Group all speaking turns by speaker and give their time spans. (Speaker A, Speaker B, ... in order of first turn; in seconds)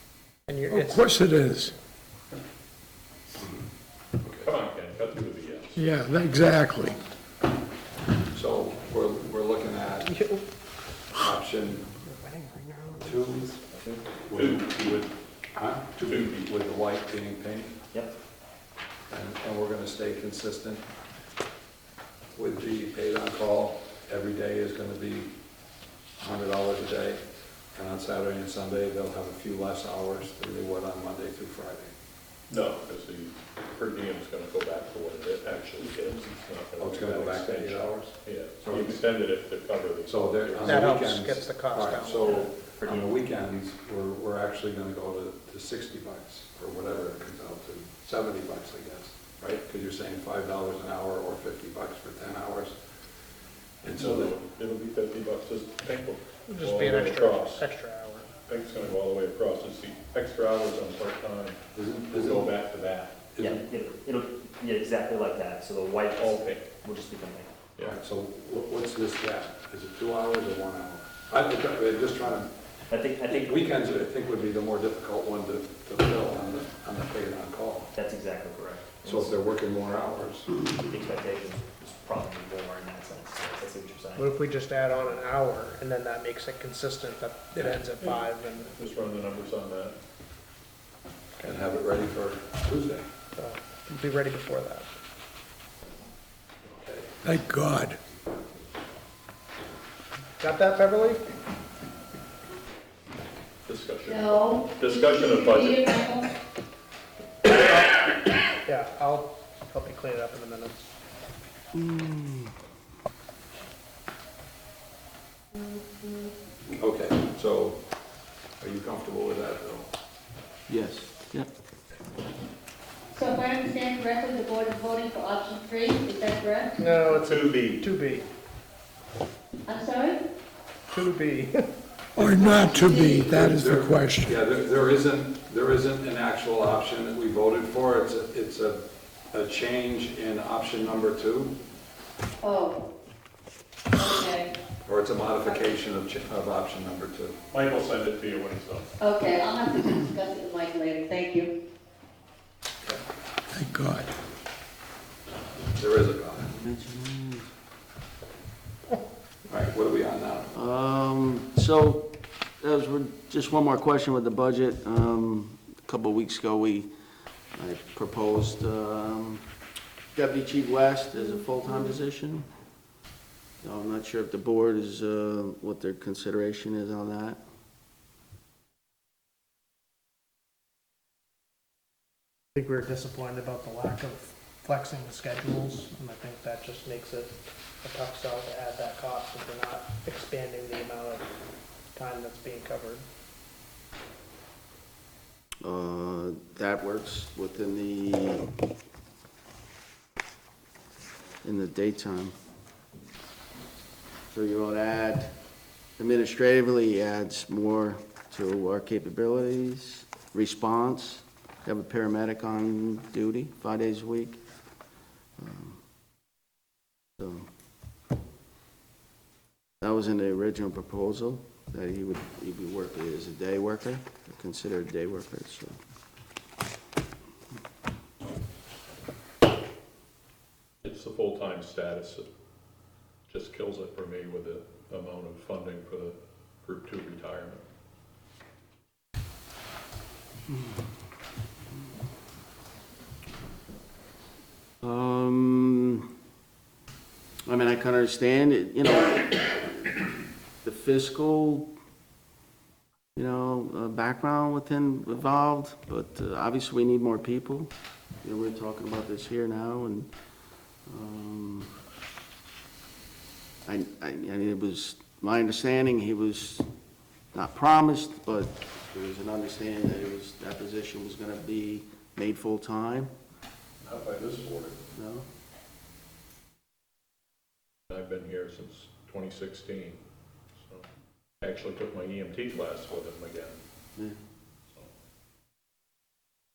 Speaker A: 0.5-1.2, 10.1-10.4, 12.2-13.5, 40.6-42.5, 56.5-58.3, 84.2-88.7, 93.3-94.9, 100.4-101.2, 108.6-110.9, 126.8-128.3, 130.9-131.7, 182.6-191.3, 191.9-193.0
Speaker B: 0.7-1.7, 5.8-7.0, 97.2-98.0, 132.2-134.4, 153.5-154.1
Speaker C: 4.2-4.5, 8.3-10.2, 11.2-12.0, 13.0-13.4, 14.3-17.8, 19.1-20.8, 22.3-25.3, 26.2-27.2, 27.7-31.9, 36.8-38.2, 40.0-52.8, 53.8-54.3, 61.7-62.6, 63.3-63.6, 67.8-72.5, 73.2-77.9, 79.0-80.5, 91.4-93.0, 96.7-97.1, 116.7-117.8, 118.6-119.9, 133.2-141.6, 144.8-147.4, 155.8-156.6, 159.5-160.5
Speaker D: 4.4-5.8, 13.8-15.1, 16.1-16.5, 32.5-40.9, 54.0-57.7, 58.5-63.2, 66.1-66.7, 88.6-90.0, 103.7-105.8, 127.1-127.8, 147.5-148.9, 230.8-232.3, 233.3-237.6, 273.8-274.8, 277.9-280.0, 280.6-280.9, 281.4-283.6
Speaker E: 38.6-39.0, 42.8-43.1, 63.4-67.6, 72.9-73.6, 77.9-79.4, 80.7-84.3
Speaker F: 104.1-106.3, 115.6-116.3, 123.1-127.0, 129.7-130.2, 132.3-133.3, 142.4-142.8, 143.9-144.5, 149.0-151.5
Speaker G: 111.7-112.5, 120.7-121.5, 156.6-157.5, 160.5-166.9, 167.5-169.4, 170.1-172.4, 173.6-177.4, 195.6-198.5, 201.4-202.3, 204.3-205.3, 206.0-214.4, 215.4-215.8, 217.2-217.5, 219.8-225.8, 244.8-246.1, 247.4-250.0, 250.6-251.7, 253.2-257.7, 258.2-260.1, 260.9-261.7, 263.6-266.7, 267.3-273.1, 274.9-275.2